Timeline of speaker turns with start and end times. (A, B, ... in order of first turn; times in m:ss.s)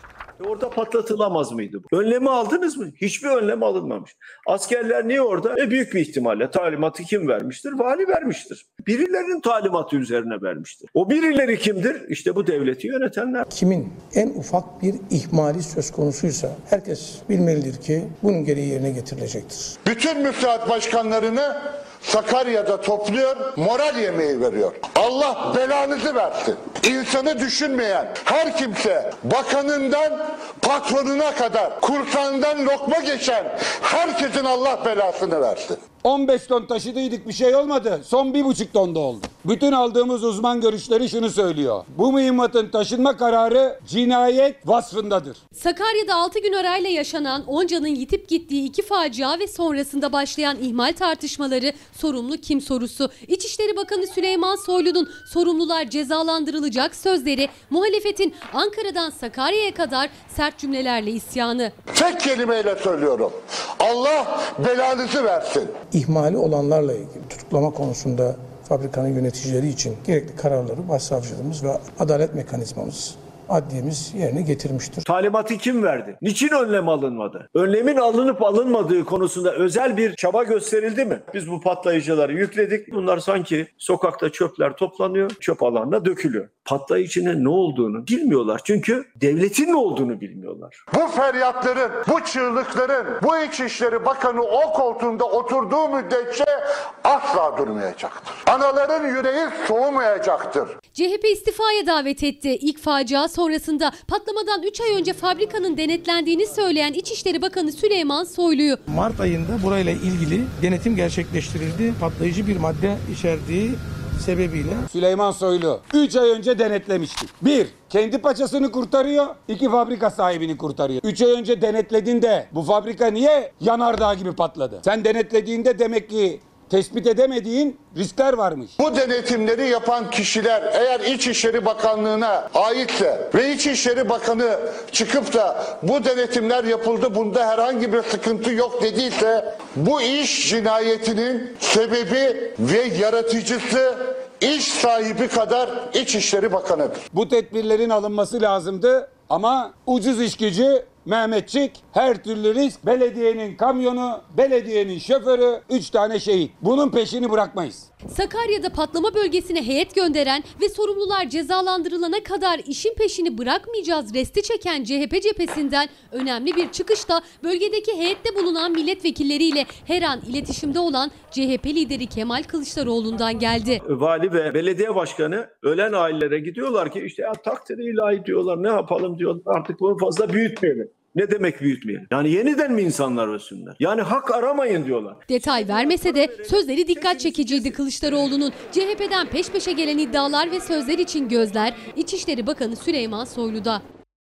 0:00.4-0:13.5 A
0:13.5-0:19.8 B
0:19.9-0:35.8 C
0:36.0-0:45.4 D
0:45.6-1:01.7 E
1:01.9-1:05.7 C
1:05.9-1:15.0 B
1:15.0-1:30.8 A
1:30.9-1:40.8 C
1:40.9-1:48.8 E
1:48.9-1:54.9 B
1:54.9-2:08.7 D
2:08.8-2:27.0 C
2:27.1-2:37.9 D
2:38.1-2:53.8 E
2:53.8-3:07.8 A
3:05.3-3:13.8 E